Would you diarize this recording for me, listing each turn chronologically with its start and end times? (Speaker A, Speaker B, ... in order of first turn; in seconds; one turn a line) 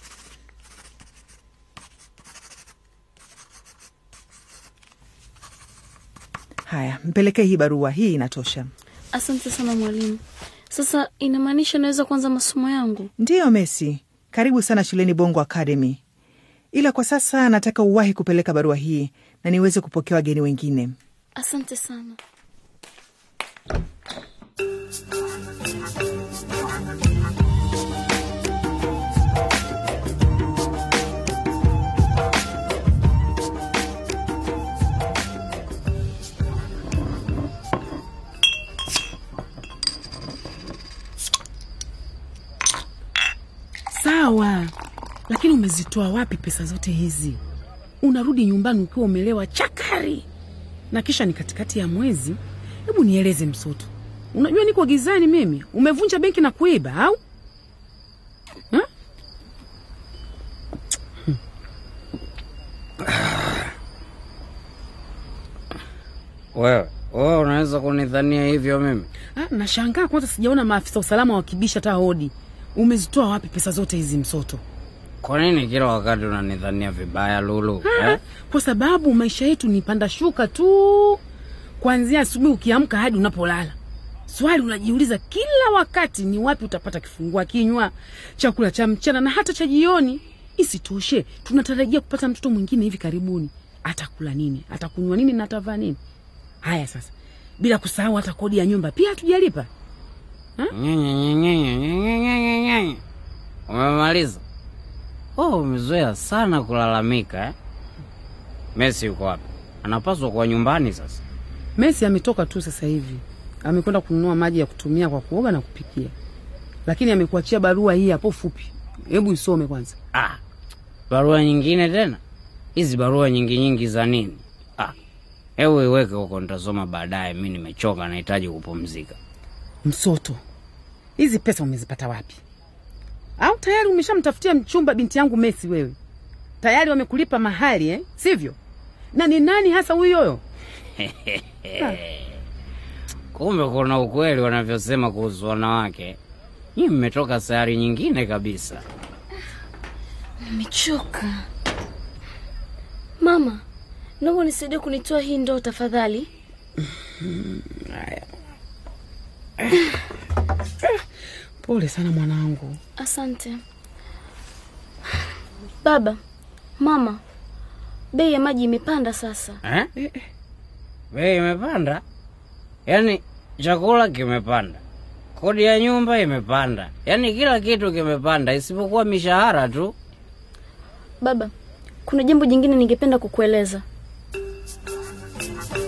Speaker A: 6.7-8.7
Speaker B: 9.1-13.1
Speaker A: 13.2-16.0
Speaker A: 16.7-20.9
Speaker B: 21.4-22.2
Speaker C: 43.9-44.7
Speaker C: 45.3-47.4
Speaker C: 48.0-50.3
Speaker C: 50.9-57.2
Speaker D: 63.2-63.5
Speaker D: 66.5-69.1
Speaker C: 69.3-74.6
Speaker D: 75.2-78.2
Speaker C: 77.8-81.2
Speaker C: 81.8-83.8
Speaker C: 84.3-96.0
Speaker C: 96.6-99.7
Speaker D: 100.7-103.0
Speaker D: 103.7-104.4
Speaker D: 105.4-107.5
Speaker D: 108.8-111.2
Speaker C: 111.8-116.1
Speaker C: 116.9-120.0
Speaker D: 121.1-122.2
Speaker D: 122.8-124.9
Speaker D: 125.6-129.2
Speaker C: 129.8-130.4
Speaker C: 131.2-132.4
Speaker C: 133.4-136.0
Speaker C: 136.6-138.6
Speaker C: 139.1-140.4
Speaker D: 141.0-141.9
Speaker D: 143.3-146.2
Speaker D: 146.8-148.8
Speaker B: 150.4-151.4
Speaker B: 153.2-153.6
Speaker B: 154.2-156.3
Speaker C: 157.2-158.2
Speaker C: 161.6-162.8
Speaker B: 163.0-163.6
Speaker B: 165.8-166.2
Speaker B: 166.8-167.2
Speaker B: 168.1-169.6
Speaker D: 169.6-169.9
Speaker C: 170.0-170.3
Speaker D: 171.1-172.0
Speaker D: 172.9-174.8
Speaker D: 175.3-179.9
Speaker B: 181.2-181.5
Speaker B: 182.1-183.8